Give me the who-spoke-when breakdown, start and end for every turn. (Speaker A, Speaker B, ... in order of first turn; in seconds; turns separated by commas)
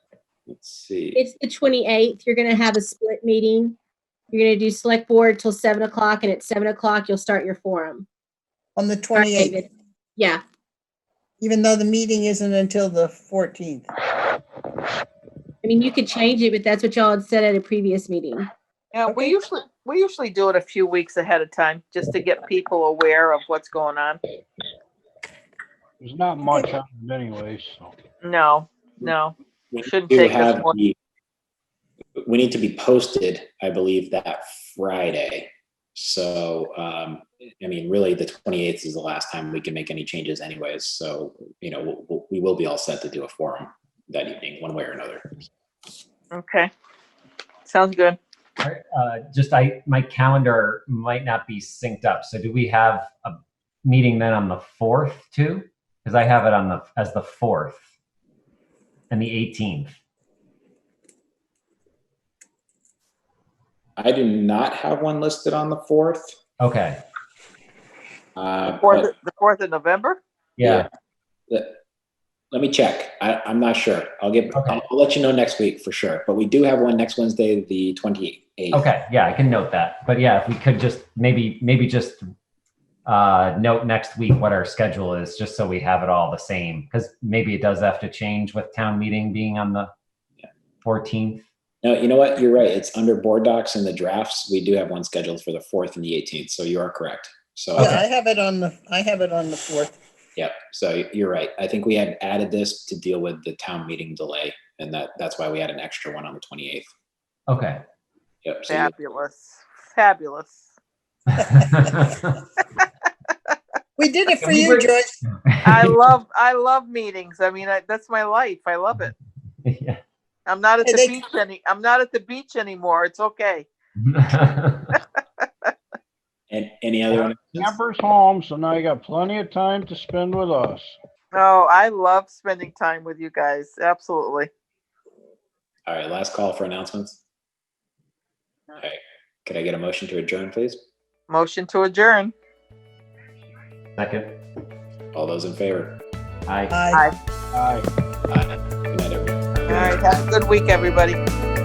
Speaker A: 0.5-1.2, Speaker B: 1.1-3.8, Speaker B: 4.3-8.1, Speaker C: 8.8-9.6, Speaker B: 9.1-10.4, Speaker C: 11.4-13.9, Speaker B: 15.6-18.5, Speaker D: 18.9-24.2, Speaker E: 26.0-27.9, Speaker D: 28.2-30.7, Speaker A: 29.7-31.0, Speaker A: 32.2-45.5, Speaker D: 46.3-46.7, Speaker D: 47.7-48.2, Speaker F: 48.6-57.8, Speaker F: 59.1-59.9, Speaker A: 64.0-66.3, Speaker F: 66.6-67.0, Speaker A: 68.4-69.1, Speaker D: 68.6-70.2, Speaker F: 70.6-70.9, Speaker A: 70.6-70.9, Speaker A: 71.5-71.8, Speaker A: 72.5-78.9, Speaker F: 74.5-74.8, Speaker F: 78.7-82.3, Speaker F: 83.1-89.9, Speaker F: 90.8-91.5, Speaker A: 91.8-98.0, Speaker C: 97.8-100.0, Speaker A: 100.4-106.9, Speaker F: 107.5-107.8, Speaker A: 108.4-108.9, Speaker D: 108.7-110.6, Speaker F: 111.4-112.4, Speaker C: 114.0-115.2, Speaker F: 114.4-116.0, Speaker D: 115.7-119.1, Speaker F: 119.6-120.0, Speaker D: 120.5-123.7, Speaker C: 120.8-121.2, Speaker F: 124.0-125.0, Speaker D: 125.4-125.7, Speaker A: 126.5-127.8, Speaker E: 127.1-131.0, Speaker D: 131.3-134.5, Speaker A: 135.9-137.2, Speaker A: 138.8-140.8, Speaker D: 141.3-142.3, Speaker F: 144.0-144.4, Speaker A: 145.1-146.0, Speaker F: 146.5-146.8, Speaker C: 146.7-147.1, Speaker E: 147.5-147.9, Speaker A: 148.3-150.0, Speaker D: 149.7-151.2